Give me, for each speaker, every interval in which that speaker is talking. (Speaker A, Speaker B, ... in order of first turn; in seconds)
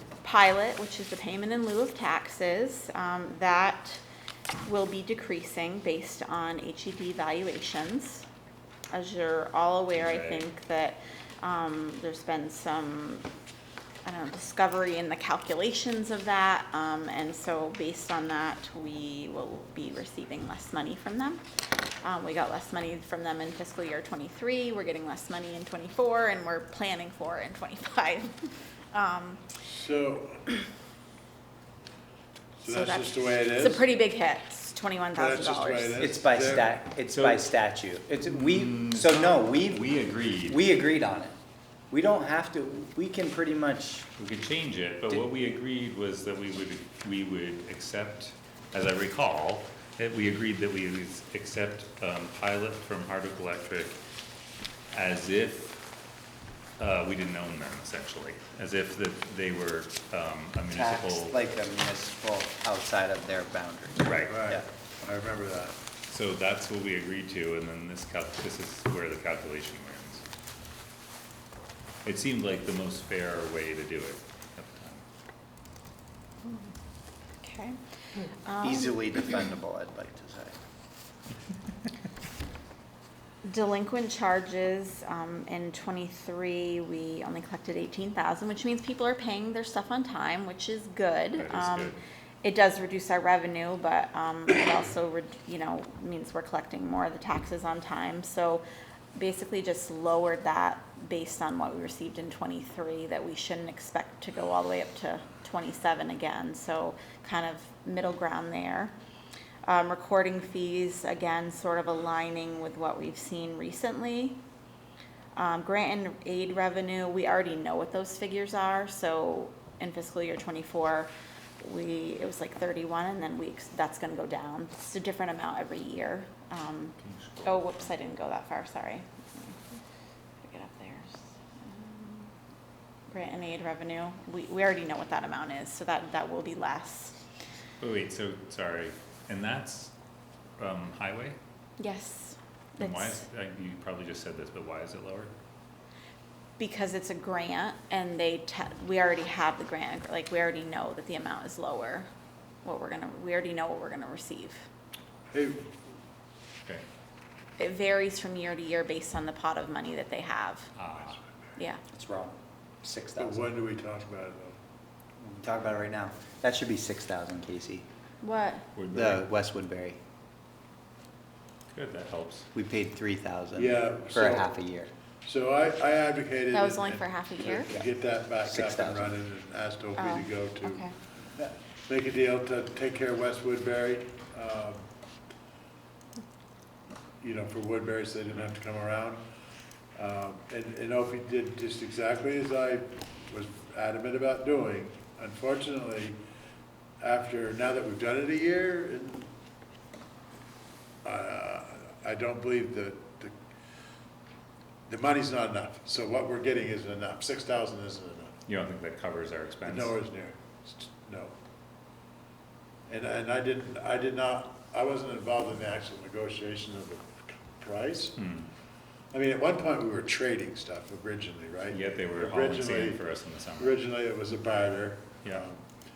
Speaker A: 0.2-4.0, 4.6-8.2, 8.9-13.2, 14.1-21.4, 22.0-28.3, 28.9-29.5, 32.7-36.0, 77.4-77.8, 78.4-79.1, 83.4-98.6, 99.2-108.9, 109.7-114.4, 115.4-129.6, 130.4-132.3, 133.1-137.2, 141.8-143.2, 146.6-152.1, 152.6-154.7, 157.6-160.7, 168.2-168.7, 176.5-177.8, 180.0-180.9
Speaker B: 9.9-10.5, 37.1-37.5, 38.2-40.7, 44.2-54.0, 54.9-55.8, 56.8-61.4, 64.0-64.4, 66.1-70.2, 72.0-75.0, 91.4-92.0, 127.0-127.9, 137.8-139.9, 140.6-141.4, 142.8-145.3, 160.8-161.2, 168.8-169.2, 171.7-172.5, 208.5-210.0, 218.2-218.5, 221.7-223.8
Speaker C: 29.6-30.5, 32.6-33.9, 35.2-36.8, 64.3-65.8, 155.3-155.8, 163.2-164.6, 173.6-174.5, 175.2-184.9, 187.2-189.2, 190.0-196.2, 197.0-199.3, 201.0-203.3, 204.9-208.4, 209.7-211.3, 212.9-218.2, 219.1-223.0, 223.6-225.6
Speaker D: 36.0-39.9, 40.5-41.4, 41.9-44.1, 60.7-64.7, 78.6-80.6, 161.9-163.5, 165.2-167.9, 168.9-170.0, 172.5-174.9, 178.4-179.1